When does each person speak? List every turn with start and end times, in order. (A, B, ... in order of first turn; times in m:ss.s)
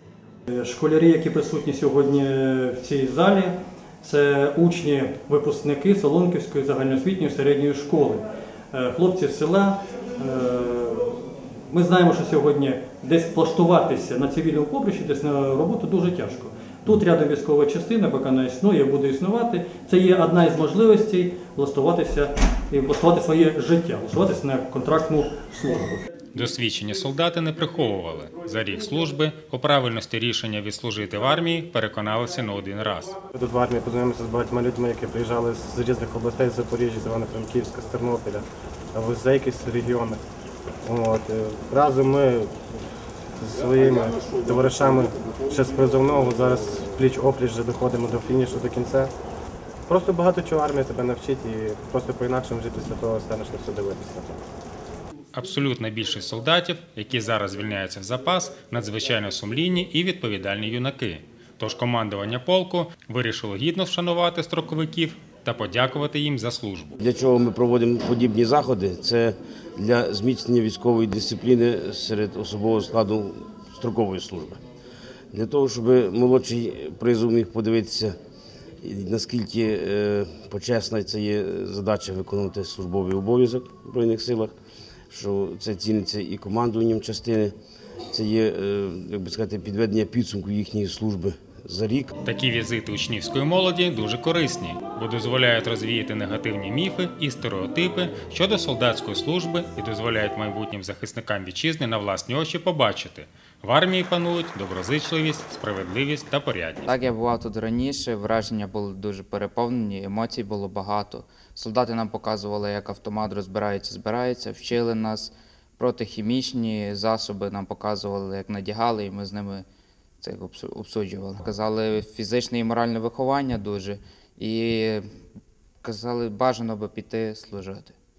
0:00.5-0:26.0 A
0:26.3-0:33.2 B
0:33.3-0:40.2 C
0:40.9-0:42.5 C
0:43.4-0:49.1 C
0:49.9-0:54.4 C
0:55.3-1:07.0 B
1:07.0-1:14.6 D
1:15.3-1:18.2 D
1:18.8-1:24.5 D
1:25.1-1:27.6 D
1:28.1-1:32.1 D
1:32.2-1:46.9 B
1:46.9-1:59.6 E
2:00.2-2:05.0 E
2:05.8-2:08.0 E